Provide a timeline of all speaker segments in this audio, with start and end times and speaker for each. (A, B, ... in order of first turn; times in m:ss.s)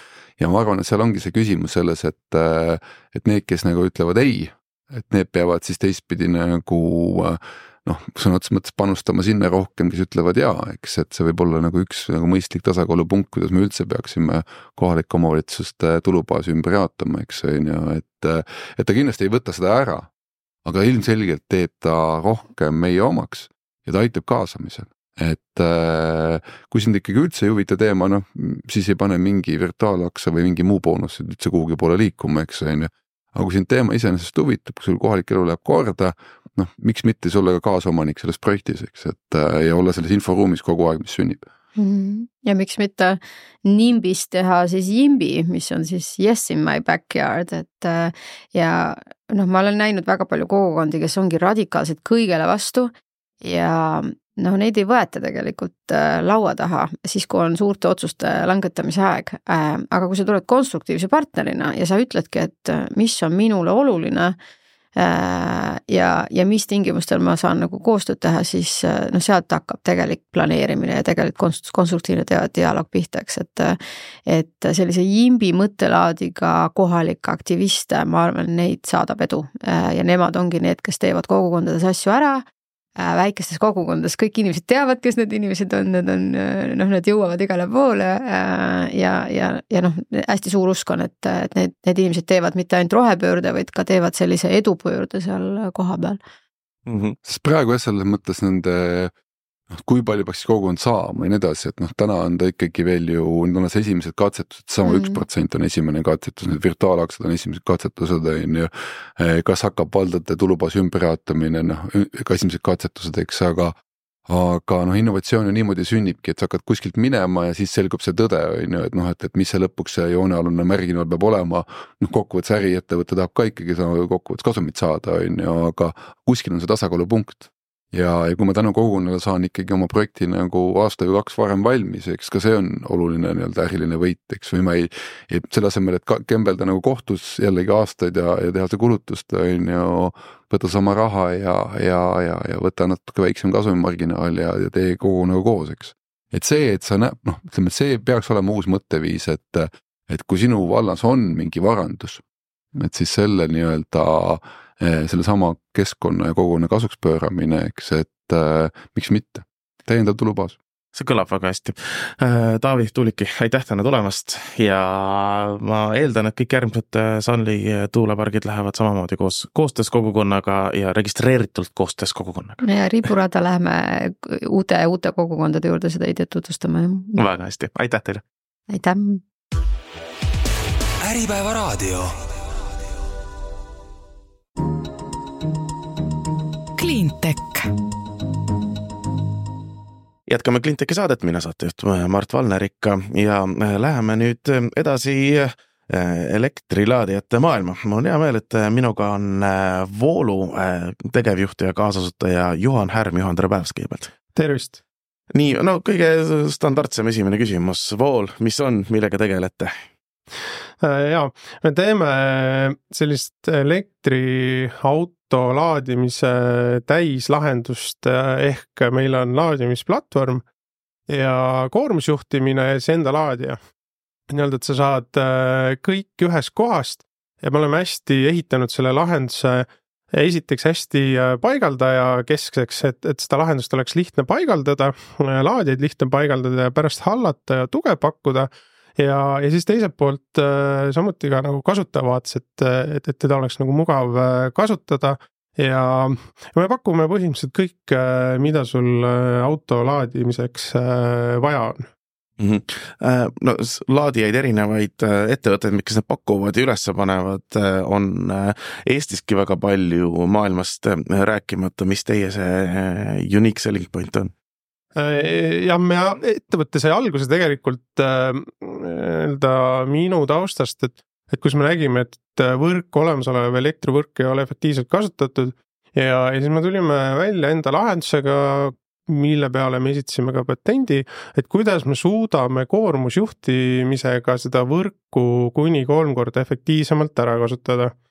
0:00.4-0:20.1 A
0:20.6-0:41.4 A
0:41.8-1:04.4 B
1:05.0-1:22.4 B
1:23.0-1:36.2 B
1:36.9-1:37.2 C
1:37.2-1:39.1 A
1:39.7-1:53.7 A
1:44.8-1:45.2 B
1:54.3-2:32.2 A
2:32.7-2:40.6 A
2:40.9-2:52.6 C
2:52.6-2:57.2 B
2:57.2-2:58.2 C
2:58.7-2:59.2 B
3:01.0-3:02.5 D
3:06.8-3:07.7 D
3:10.3-3:24.1 C
3:24.3-3:24.8 E
3:25.3-3:29.8 C
3:30.8-3:40.4 E
3:41.1-3:43.6 E
3:44.3-4:11.9 E
4:12.4-4:24.3 C
4:25.0-4:47.9 E